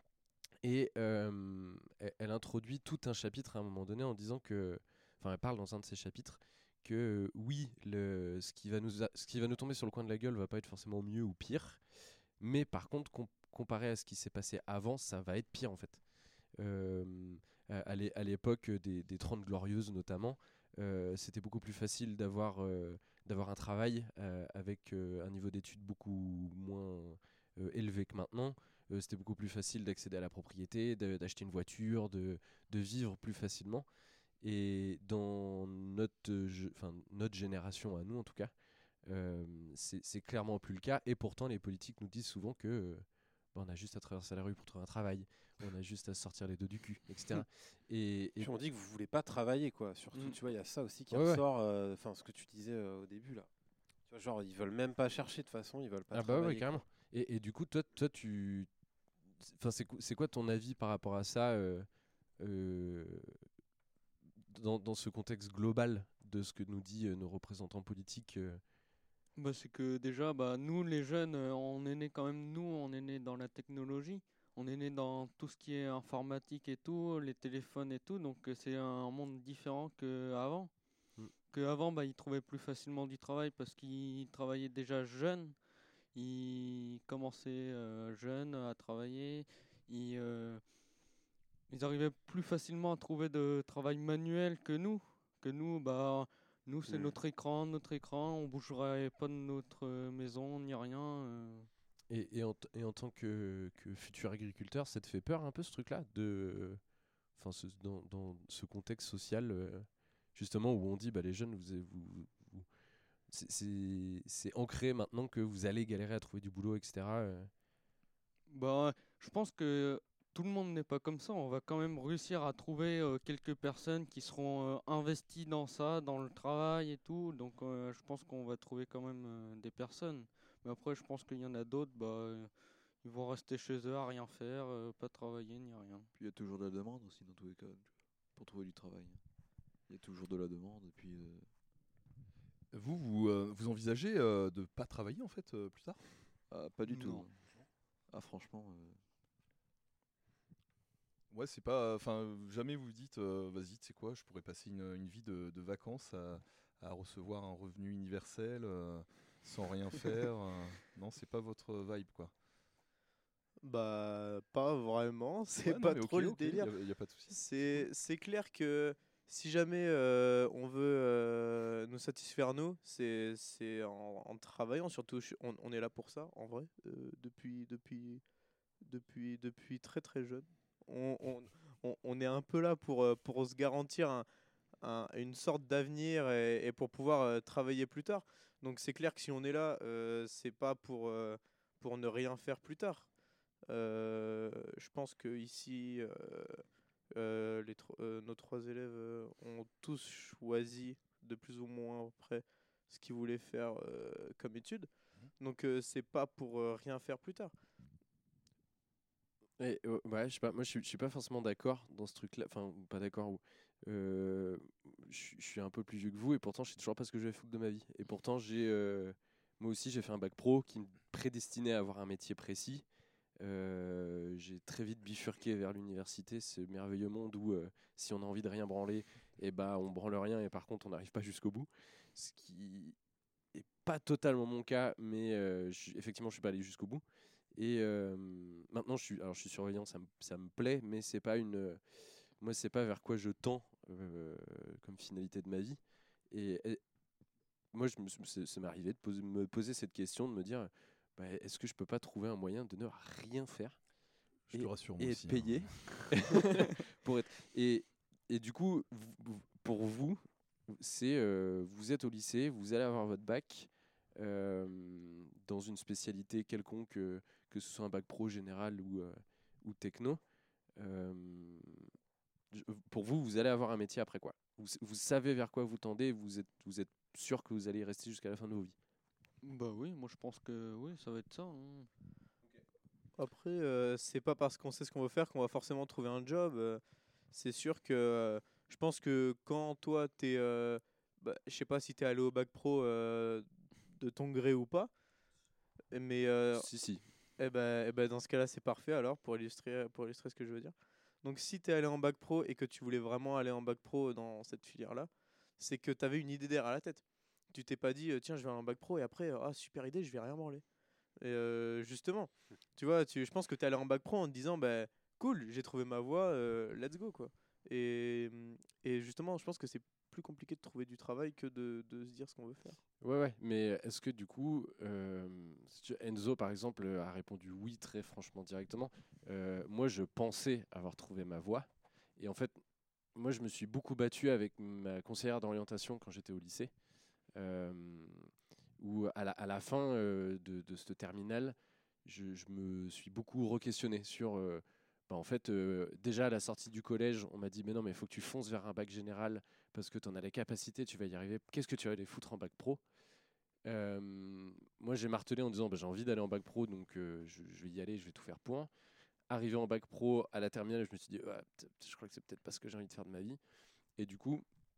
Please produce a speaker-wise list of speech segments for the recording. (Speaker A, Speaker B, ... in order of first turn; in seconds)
Speaker A: 0.6-33.9, 34.4-48.5, 51.1-51.4, 56.1-58.7, 59.4-61.9, 62.4-63.4, 64.4-68.6, 102.1-106.8, 107.3-112.7, 113.3-117.5, 209.6-222.8, 223.4-233.0, 233.5-237.0, 237.6-246.8, 247.7-253.8, 254.5-270.2, 270.8-271.9, 272.5-278.8, 296.5-297.0, 323.0-332.6, 333.1-336.7, 337.4-352.8, 353.6-358.7, 359.3-363.4, 364.0-364.4
Speaker B: 48.4-53.5, 54.1-56.8, 96.9-97.2
Speaker C: 69.4-80.7, 81.5-90.6, 91.7-101.7, 118.5-136.1, 147.0-147.2, 279.4-281.9
Speaker D: 136.2-139.2, 139.9-141.5, 146.5-147.4, 148.1-149.0
Speaker E: 142.7-146.0, 151.3-162.3, 165.6-167.9, 254.5-256.1
Speaker F: 163.6-166.7, 167.3-178.2, 178.8-184.3, 184.8-193.1, 193.7-204.9, 205.4-207.5, 283.2-294.9, 295.9-296.7, 297.4-310.6, 311.2-322.8